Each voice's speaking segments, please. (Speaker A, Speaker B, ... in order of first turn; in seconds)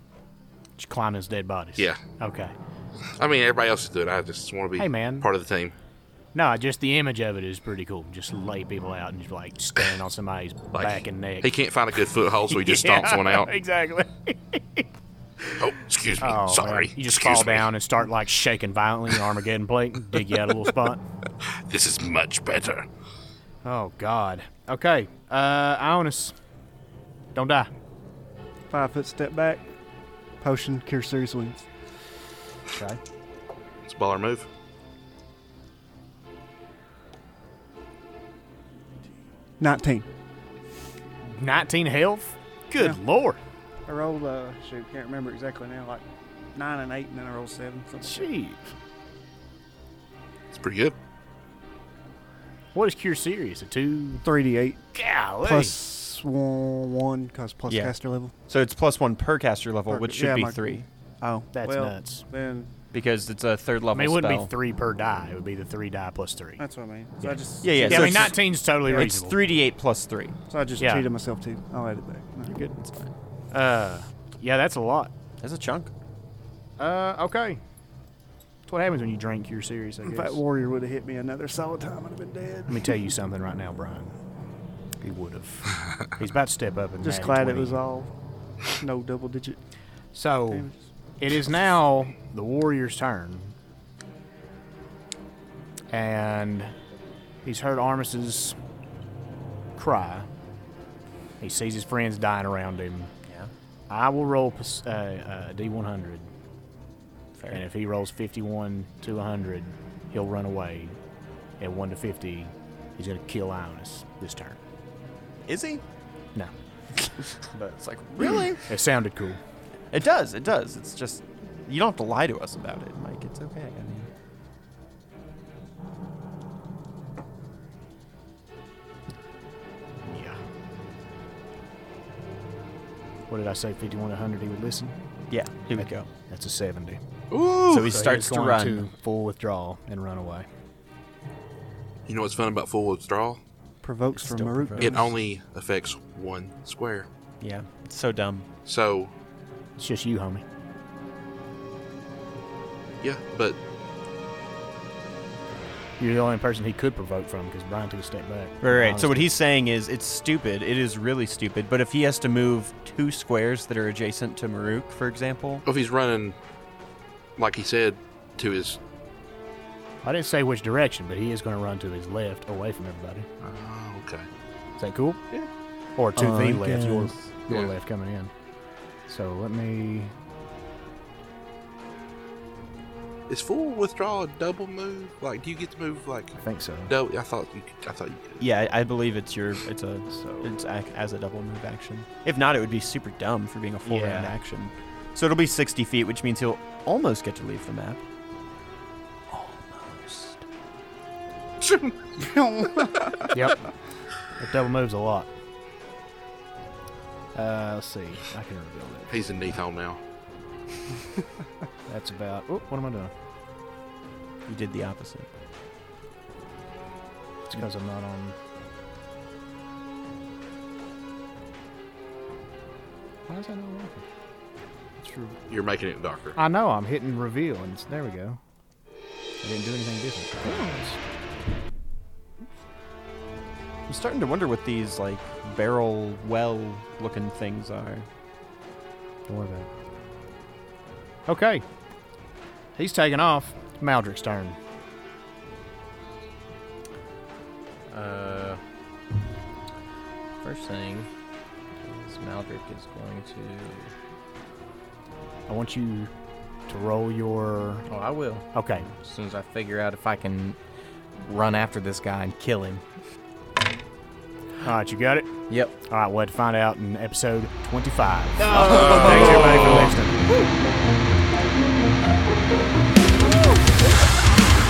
Speaker A: 0.8-2.5, 4.8-5.3, 6.3-11.5, 12.5-14.9, 15.4-15.7, 16.2-21.0, 23.6-26.4, 27.4-27.7, 32.7-33.0, 41.2-43.4, 48.0-48.6, 52.7-54.2, 54.9-55.8, 61.5-62.2, 63.9-66.6, 67.2-69.4, 70.8-71.1, 72.5-72.8, 73.5-75.1, 76.8-77.6, 78.7-80.4, 82.7-84.1, 85.0-87.8, 90.1-93.5, 95.9-96.7, 97.4-98.6, 99.8-100.3, 101.4-103.1, 103.9-106.3, 107.5-111.0, 111.6-114.6, 117.4-119.4, 130.0-130.4, 133.3-134.9, 135.8-137.0, 137.7-140.4, 149.8-150.4, 156.0-159.3, 170.0-173.3, 174.8-175.2, 175.9-178.3, 179.1-180.1, 186.4-186.9, 190.1-190.5, 193.8-194.4, 203.3-203.6, 204.4-205.3, 207.3-209.3, 211.9-213.1, 217.5-218.4, 223.3-224.0, 225.0-225.4, 226.4-228.4, 229.4-231.0, 239.3-239.7, 241.3-241.6, 242.8-244.6, 255.5-256.1, 256.7-257.9, 258.5-258.9, 264.6-265.3, 265.9-270.3
Speaker B: 3.2-5.7, 10.7-13.5, 15.6-17.7, 21.4-22.9, 33.9-34.5, 50.5-51.0, 137.3-137.9, 142.1-143.4, 144.8-147.1, 148.7-149.1, 153.0-153.6, 165.6-166.4, 167.4-168.8, 173.4-174.3, 183.3-186.4, 186.9-188.5, 201.6-202.1, 209.1-210.0, 225.5-226.4, 268.5-269.9
Speaker C: 28.7-29.6, 30.4-31.6, 39.6-40.1, 43.9-46.0, 46.5-48.3, 54.2-54.8, 55.4-58.3, 59.9-60.6, 61.6-62.7, 66.6-68.4, 70.5-72.6, 80.0-83.0, 87.0-88.1, 88.7-89.6, 90.5-90.8, 143.8-145.1, 202.2-203.3
Speaker D: 57.7-57.9, 58.5-61.5, 62.9-64.5, 67.6-70.4, 75.4-75.9, 115.5-115.8, 117.8-118.6, 119.9-124.1, 135.3-136.1, 137.6-138.9, 144.2-145.1, 147.4-148.5, 158.6-165.6, 176.2-177.2, 188.4-198.0, 199.3-200.4, 214.4-215.3, 233.9-238.1, 268.4-270.6, 273.2-273.7
Speaker E: 247.9-248.6, 250.4-251.1, 251.8-253.9, 257.9-260.6, 261.2-262.8, 265.5-265.7